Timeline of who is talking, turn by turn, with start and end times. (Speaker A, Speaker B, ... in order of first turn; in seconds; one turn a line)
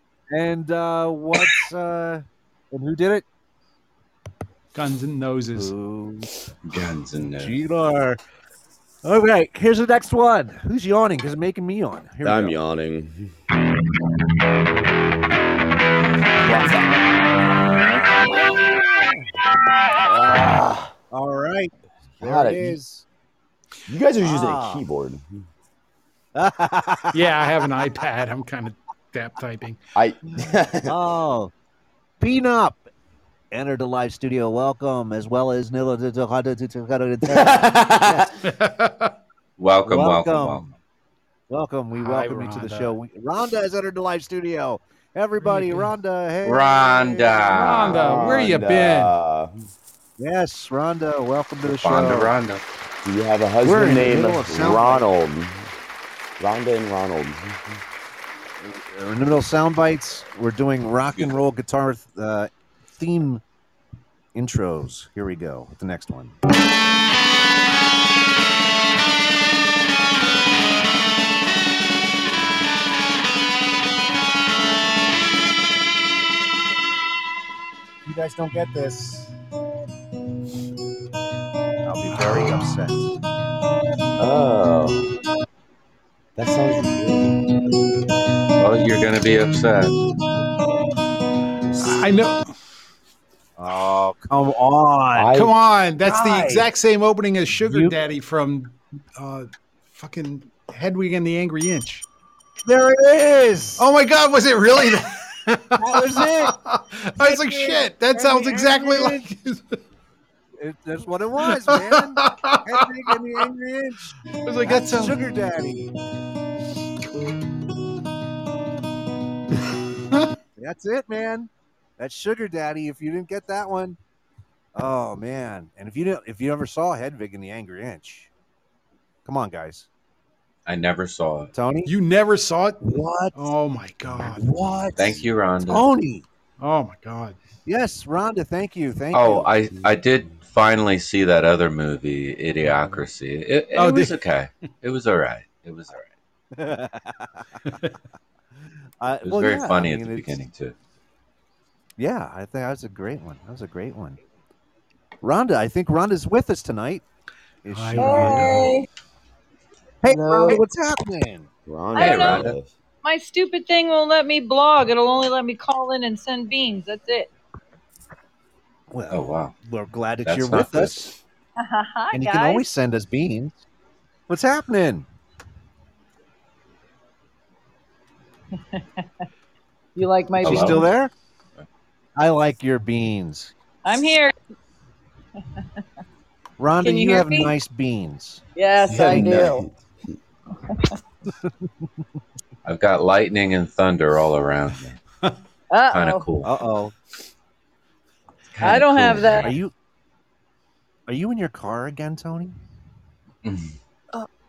Speaker A: 0.3-3.2
Speaker B: 4.7-5.7
Speaker A: 5.5-6.3
Speaker C: 6.7-7.6
Speaker A: 7.4-8.2
Speaker A: 9.0-12.6
Speaker D: 12.2-13.3
Speaker D: 16.4-17.2
Speaker D: 17.7-18.7
Speaker D: 20.0-20.9
Speaker A: 21.1-23.1
Speaker D: 22.2-22.8
Speaker D: 23.9-25.4
Speaker A: 24.2-24.8
Speaker A: 26.4-27.2
Speaker B: 27.1-29.8
Speaker D: 30.0-30.9
Speaker A: 30.9-31.5
Speaker A: 32.2-32.8
Speaker A: 33.5-38.3
Speaker D: 37.3-38.3
Speaker B: 38.4-39.1
Speaker C: 39.6-40.7
Speaker A: 39.9-40.7
Speaker A: 41.5-48.3
Speaker B: 42.0-43.0
Speaker B: 45.4-45.9
Speaker C: 46.4-48.0
Speaker B: 47.5-49.1
Speaker D: 48.0-49.5
Speaker A: 50.2-52.3
Speaker C: 51.6-52.6
Speaker D: 53.0-55.7
Speaker A: 53.6-55.1
Speaker D: 56.4-57.8
Speaker A: 58.6-63.4
Speaker C: 61.1-61.4
Speaker A: 64.3-66.4
Speaker A: 78.0-79.3
Speaker A: 81.8-83.1
Speaker B: 82.1-82.7
Speaker D: 84.2-85.1
Speaker D: 86.4-87.4
Speaker C: 88.6-90.0
Speaker B: 91.8-92.5
Speaker A: 93.6-95.3
Speaker D: 95.2-95.5
Speaker B: 95.3-102.0
Speaker A: 96.0-96.7
Speaker A: 97.6-98.0
Speaker A: 102.7-103.9
Speaker B: 103.8-109.8
Speaker A: 105.8-106.6
Speaker A: 107.2-109.3
Speaker A: 110.6-115.9
Speaker B: 111.5-113.2
Speaker B: 114.4-115.2
Speaker A: 120.6-124.0
Speaker A: 124.8-128.3
Speaker A: 129.2-129.9
Speaker C: 130.7-131.5
Speaker A: 131.5-131.9
Speaker B: 131.9-134.4
Speaker A: 132.8-133.5
Speaker A: 134.3-136.3
Speaker C: 135.0-135.9
Speaker B: 136.6-137.4
Speaker A: 137.7-139.5
Speaker C: 139.1-146.1
Speaker B: 143.8-144.2
Speaker A: 146.6-147.5
Speaker A: 149.0-150.4
Speaker C: 149.2-150.8
Speaker A: 152.0-154.2
Speaker A: 155.2-157.0
Speaker A: 157.7-158.7
Speaker B: 157.7-158.7
Speaker E: 158.0-158.9
Speaker A: 160.0-161.5
Speaker E: 160.3-160.6
Speaker D: 161.7-162.7
Speaker E: 161.9-162.5
Speaker C: 162.0-162.6
Speaker E: 163.0-167.3
Speaker A: 168.9-171.2
Speaker C: 169.1-169.5
Speaker C: 170.2-171.2
Speaker E: 171.6-172.7
Speaker A: 172.1-173.6
Speaker A: 174.3-175.1
Speaker E: 178.6-179.1
Speaker E: 180.0-180.9
Speaker C: 180.4-180.9
Speaker A: 180.4-181.1
Speaker A: 182.2-183.5
Speaker E: 183.8-184.3
Speaker A: 186.6-188.4
Speaker E: 186.8-187.5
Speaker E: 188.6-189.7
Speaker D: 188.9-189.7
Speaker E: 190.7-190.9
Speaker C: 192.7-195.0
Speaker E: 195.7-196.3
Speaker C: 195.9-196.5
Speaker A: 196.4-196.9
Speaker C: 198.5-199.5
Speaker E: 198.6-199.6
Speaker A: 199.3-199.7
Speaker A: 201.1-202.6
Speaker C: 203.4-203.8